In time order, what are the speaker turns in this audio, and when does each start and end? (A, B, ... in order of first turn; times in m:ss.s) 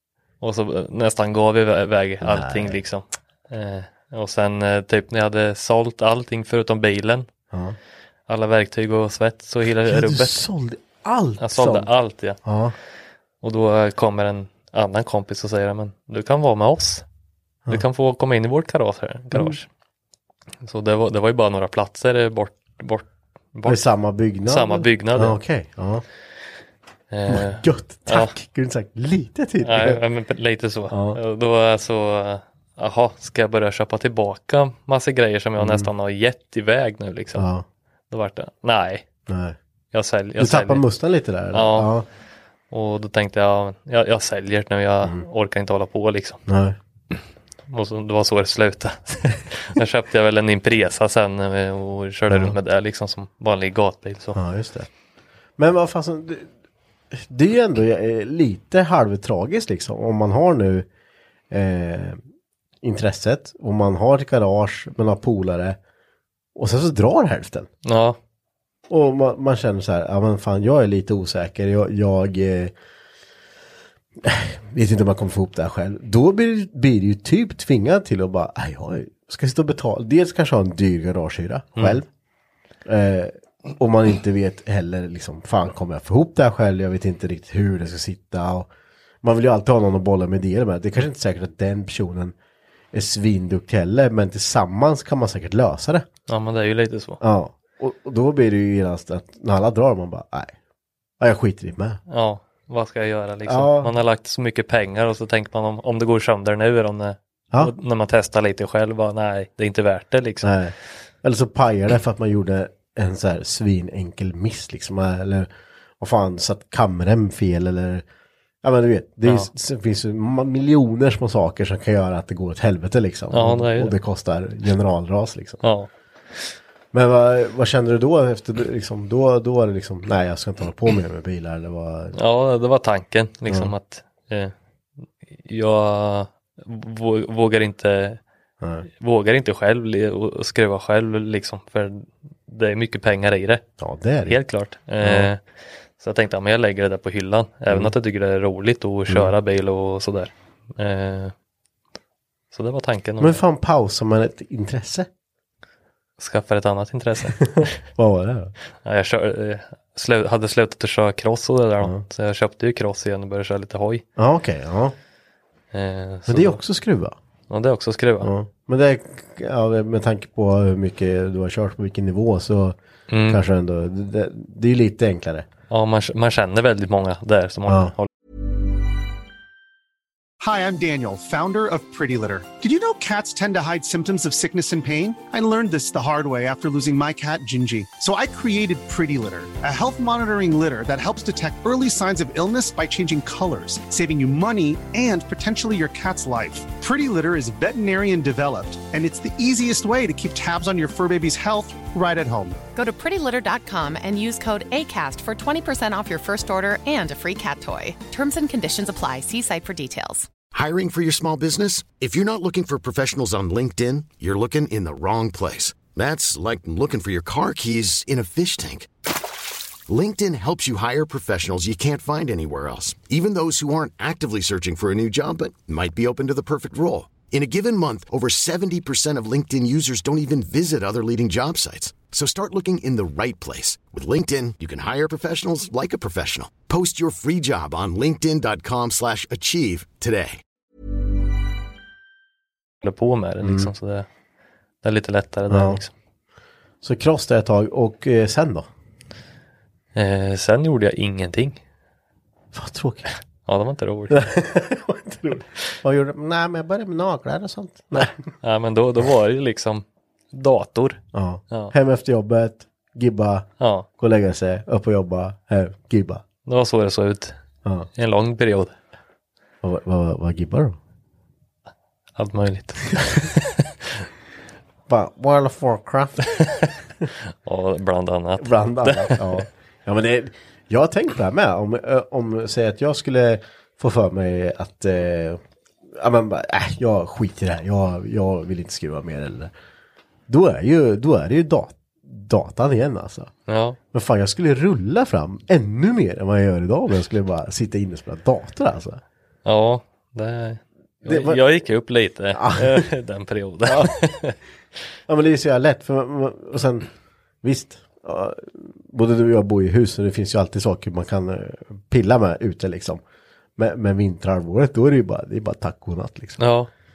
0:00.4-0:07.3 A
0:02.2-0:02.8 B
0:08.3-0:10.4 A
0:09.6-0:11.9 B
0:11.4-0:12.4 A
0:12.4-0:12.7 B
0:13.4-0:17.0 A
0:17.7-0:19.7 A
0:19.3-0:19.6 B
0:20.6-0:23.9 A
0:23.6-0:26.0 B
0:24.4-0:25.4 A
0:27.1-0:28.3 A
0:27.2-0:30.0 B
0:29.6-0:37.5 A
0:30.9-0:31.2 B
0:35.6-0:35.9 B
0:37.3-0:37.6 B
0:38.1-0:39.0 A
0:39.3-0:39.6 B
0:39.9-0:40.8 A
0:40.4-0:42.0 B
0:41.5-0:41.9 A
0:42.7-0:46.4 A
0:46.5-0:46.8 B
0:47.1-0:54.4 A
0:52.3-0:52.6 B
0:54.3-0:54.9 B
0:55.6-0:56.5 B
0:57.1-1:00.9 B
1:01.5-1:02.2 B
1:02.8-1:05.8 B
1:06.5-1:07.7 B
1:07.8-1:08.2 A
1:08.9-1:12.7 B
1:14.2-1:22.1 B
1:22.8-1:28.7 B
1:29.2-1:32.3 B
1:32.9-1:36.1 B
1:36.3-1:37.2 A
1:37.2-1:40.5 B
1:41.2-1:42.0 B
1:42.1-1:50.5 A
1:43.4-1:43.9 B
1:50.4-1:58.0 B
1:58.6-2:05.6 B
1:59.2-1:59.5 A
2:03.3-2:04.0 A
2:05.6-2:05.9 A
2:06.9-2:12.2 B
2:12.1-2:14.5 A
2:15.4-2:18.2 A
2:18.6-2:18.8 B
2:19.0-2:23.6 A
2:23.8-2:24.4 B
2:24.3-2:25.4 A
2:25.0-2:25.3 B
2:26.0-2:31.3 A
2:32.5-2:33.4 A
2:33.2-2:35.1 B
2:36.2-2:37.8 A
2:37.4-2:38.5 B
2:38.8-2:44.0 A
2:44.2-2:44.9 B
2:45.7-2:46.6 A
2:46.3-2:47.1 B
2:47.5-2:48.3 A
2:48.2-2:52.8 B
2:53.1-2:53.4 A
2:53.3-2:55.5 B
2:55.7-2:58.1 A
2:57.7-2:57.9 B
3:00.4-3:22.6 C
3:22.7-3:30.3 D
3:30.5-3:38.9 E
3:39.9-4:00.4 E
4:02.8-4:04.1 A
4:03.4-4:03.7 B
4:04.8-4:05.9 A
4:05.5-4:05.8 B
4:06.8-4:08.7 B
4:09.9-4:11.6 A
4:12.5-4:13.1 B
4:13.4-4:14.3 A
4:14.1-4:18.2 B
4:17.9-4:21.7 A
4:21.1-4:26.2 B
4:23.6-4:23.9 A
4:26.4-4:27.4 A
4:27.9-4:28.7 A
4:29.6-4:30.8 B
4:32.2-4:33.7 A
4:34.9-4:36.2 B
4:36.4-4:36.7 A
4:37.4-4:39.4 A
4:38.4-4:45.4 B
4:45.9-4:49.5 B
4:50.3-4:53.3 B
4:53.5-4:53.8 A
4:53.9-4:59.0 B
4:59.4-5:04.4 A
5:01.0-5:01.4 B
5:02.3-5:02.8 B
5:03.6-5:03.9 B
5:05.1-5:06.9 B
5:07.4-5:13.0 B
5:13.6-5:16.4 B
5:16.4-5:16.7 A